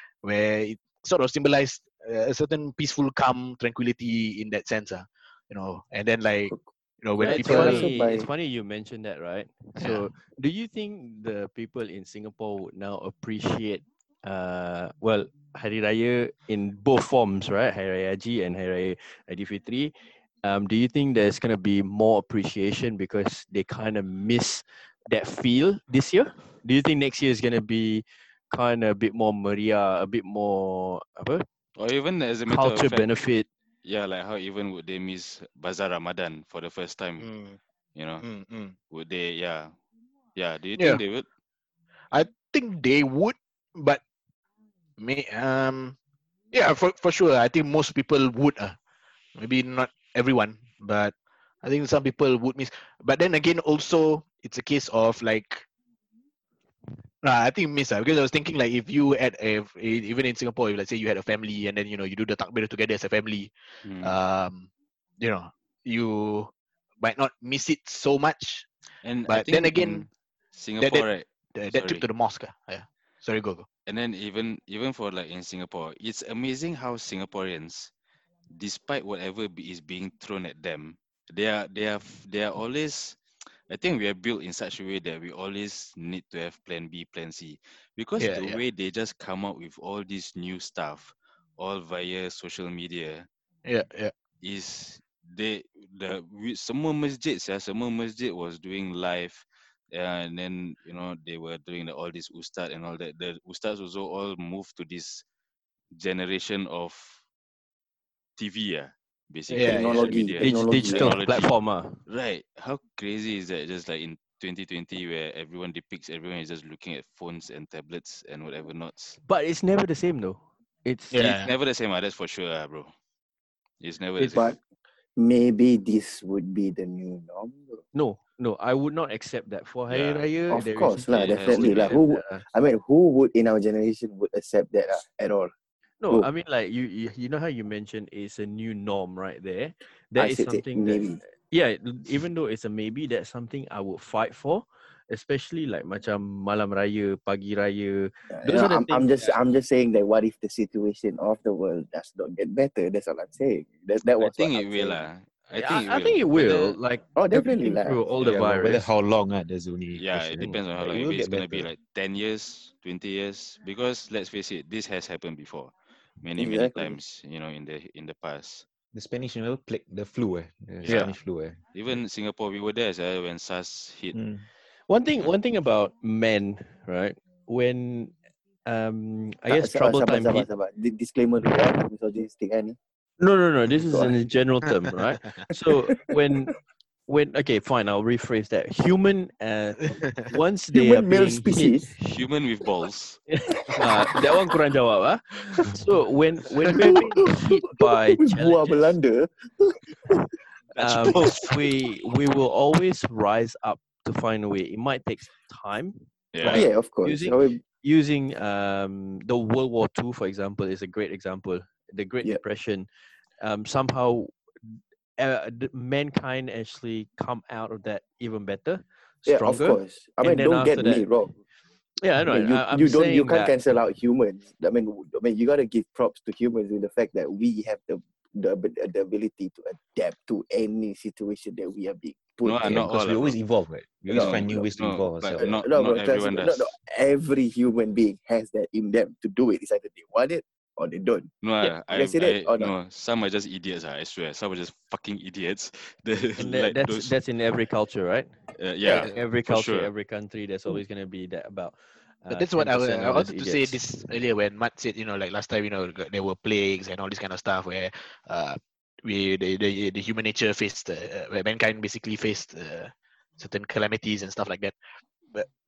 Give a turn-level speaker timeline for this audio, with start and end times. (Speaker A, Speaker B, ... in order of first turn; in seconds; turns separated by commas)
Speaker A: 0.2-7.9, Speaker B: 7.2-8.3, Speaker C: 7.2-31.4, Speaker A: 9.8-10.1, Speaker D: 31.8-33.1, Speaker C: 32.5-33.5, Speaker D: 33.8-37.3, Speaker A: 37.2-37.6, Speaker D: 38.0-38.2, Speaker A: 38.2-38.7, Speaker D: 38.9-39.7, Speaker D: 40.4-41.2, Speaker A: 40.8-41.0, Speaker A: 42.1-44.0, Speaker A: 45.0-46.0, Speaker A: 46.5-48.8, Speaker A: 49.4-55.6, Speaker A: 57.2-64.7, Speaker D: 63.8-64.1, Speaker A: 65.2-68.7, Speaker D: 69.0-72.0, Speaker A: 69.3-70.0, Speaker A: 70.8-73.7, Speaker D: 73.8-77.9, Speaker D: 78.5-93.3, Speaker A: 88.2-88.6, Speaker A: 93.6-94.1, Speaker D: 94.4-105.2, Speaker D: 106.0-107.2, Speaker D: 108.4-111.5, Speaker A: 109.5-110.2, Speaker B: 109.6-111.2, Speaker C: 110.4-112.0, Speaker D: 112.1-119.2, Speaker C: 119.2-121.2, Speaker A: 121.1-121.5, Speaker D: 121.2-122.9, Speaker D: 123.8-124.6, Speaker B: 124.2-124.6, Speaker B: 125.2-127.8, Speaker C: 127.9-132.4, Speaker D: 129.9-130.3, Speaker B: 130.5-135.5, Speaker D: 131.1-132.0, Speaker C: 136.0-149.3, Speaker B: 140.2-141.2, Speaker B: 148.3-155.0, Speaker D: 154.2-156.8, Speaker C: 155.5-158.9, Speaker B: 157.2-158.0, Speaker E: 158.2-161.7, Speaker D: 159.9-168.7, Speaker B: 166.4-167.0, Speaker E: 168.9-171.6, Speaker D: 170.8-171.1, Speaker D: 171.7-174.2, Speaker E: 174.1-174.5, Speaker C: 174.9-178.1, Speaker C: 178.7-180.5, Speaker B: 179.5-182.8, Speaker C: 183.2-186.6, Speaker B: 183.9-184.1, Speaker C: 187.1-192.2, Speaker A: 189.8-190.3, Speaker B: 190.7-191.9, Speaker D: 192.1-193.2, Speaker C: 193.7-198.9, Speaker B: 196.7-200.2, Speaker D: 200.7-201.5, Speaker C: 200.8-212.9, Speaker D: 206.3-206.7, Speaker B: 206.4-207.6, Speaker C: 213.4-221.1, Speaker B: 219.2-221.4, Speaker C: 222.0-223.5, Speaker B: 222.2-232.8, Speaker D: 232.4-233.4, Speaker E: 232.6-235.5, Speaker B: 234.1-234.7, Speaker D: 234.1-236.7, Speaker B: 235.4-241.3, Speaker D: 241.4-247.1, Speaker B: 241.9-242.7, Speaker C: 246.4-248.3, Speaker D: 248.6-249.9, Speaker C: 248.9-253.8, Speaker A: 252.3-264.8